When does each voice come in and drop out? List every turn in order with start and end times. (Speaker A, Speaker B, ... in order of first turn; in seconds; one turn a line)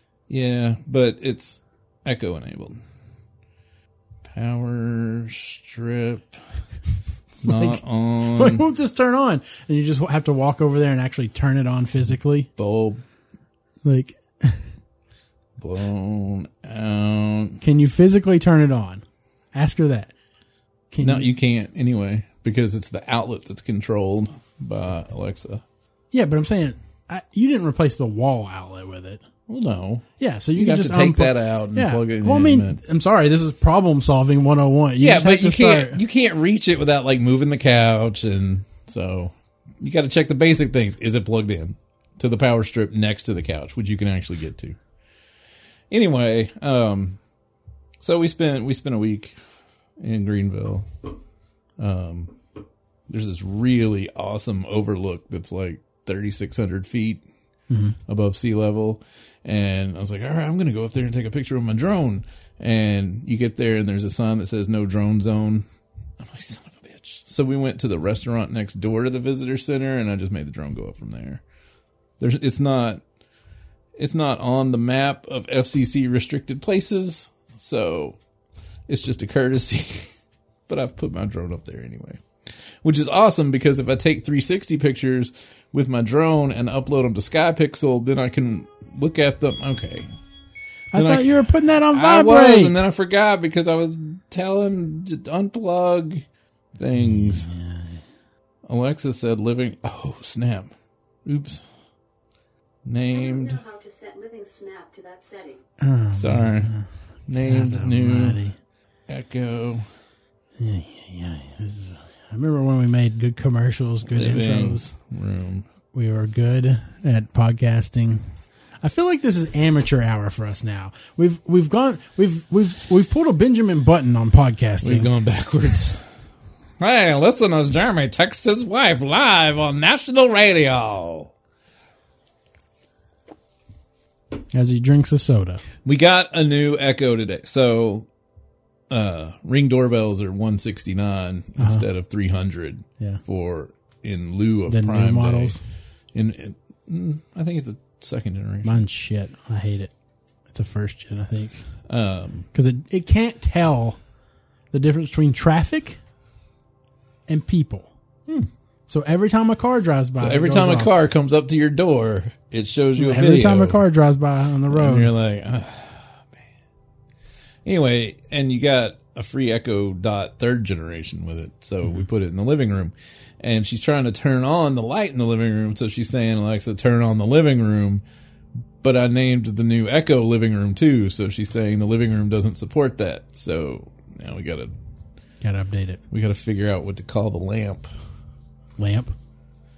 Speaker A: 0.3-2.8
Speaker A: 4.3-6.4
Speaker B: 7.3-12.5
Speaker A: 7.4-8.7
Speaker A: 12.6-13.0
Speaker B: 13.8-14.6
Speaker A: 15.6-17.6
Speaker B: 17.6-19.0
Speaker B: 19.5-20.1
Speaker B: 20.9-21.3
Speaker A: 21.0-25.6
Speaker B: 26.1-29.2
Speaker A: 29.5-32.8
Speaker B: 30.2-36.0
Speaker A: 35.0-44.8
Speaker A: 45.9-47.2
Speaker A: 48.0-49.4
Speaker A: 50.0-50.9
Speaker A: 51.8-52.3
Speaker A: 53.1-57.2
Speaker B: 57.7-58.0
Speaker A: 58.1-65.7
Speaker A: 66.2-71.4
Speaker A: 72.2-73.0
Speaker A: 74.0-78.2
Speaker A: 78.9-80.1
Speaker A: 80.7-82.2
Speaker A: 82.8-90.1
Speaker B: 90.9-92.8
Speaker A: 91.0-91.3
Speaker A: 91.9-96.2
Speaker A: 96.8-97.5
Speaker B: 97.0-97.9
Speaker A: 98.7-100.7
Speaker A: 101.2-101.7
Speaker A: 102.8-103.6
Speaker C: 103.1-105.6
Speaker B: 105.8-108.6
Speaker A: 106.1-106.7
Speaker A: 107.3-108.4
Speaker A: 109.1-109.9
Speaker B: 110.6-115.0
Speaker A: 114.1-115.7
Speaker B: 115.9-118.2
Speaker B: 118.8-125.1
Speaker A: 124.8-126.0
Speaker A: 126.8-131.3
Speaker B: 134.5-135.6
Speaker A: 135.8-138.1
Speaker A: 138.9-145.6
Speaker B: 141.6-141.8
Speaker B: 144.7-145.6
Speaker A: 146.1-148.8
Speaker B: 148.7-149.9
Speaker B: 150.5-151.7
Speaker A: 151.9-152.5
Speaker B: 152.5-154.0
Speaker B: 154.7-156.0
Speaker B: 157.3-157.9
Speaker B: 158.9-160.9
Speaker A: 160.2-163.8
Speaker B: 163.0-165.1
Speaker A: 164.7-166.2
Speaker A: 167.7-178.0
Speaker A: 178.8-184.7
Speaker B: 185.4-186.0
Speaker A: 186.1-187.9
Speaker B: 188.8-189.1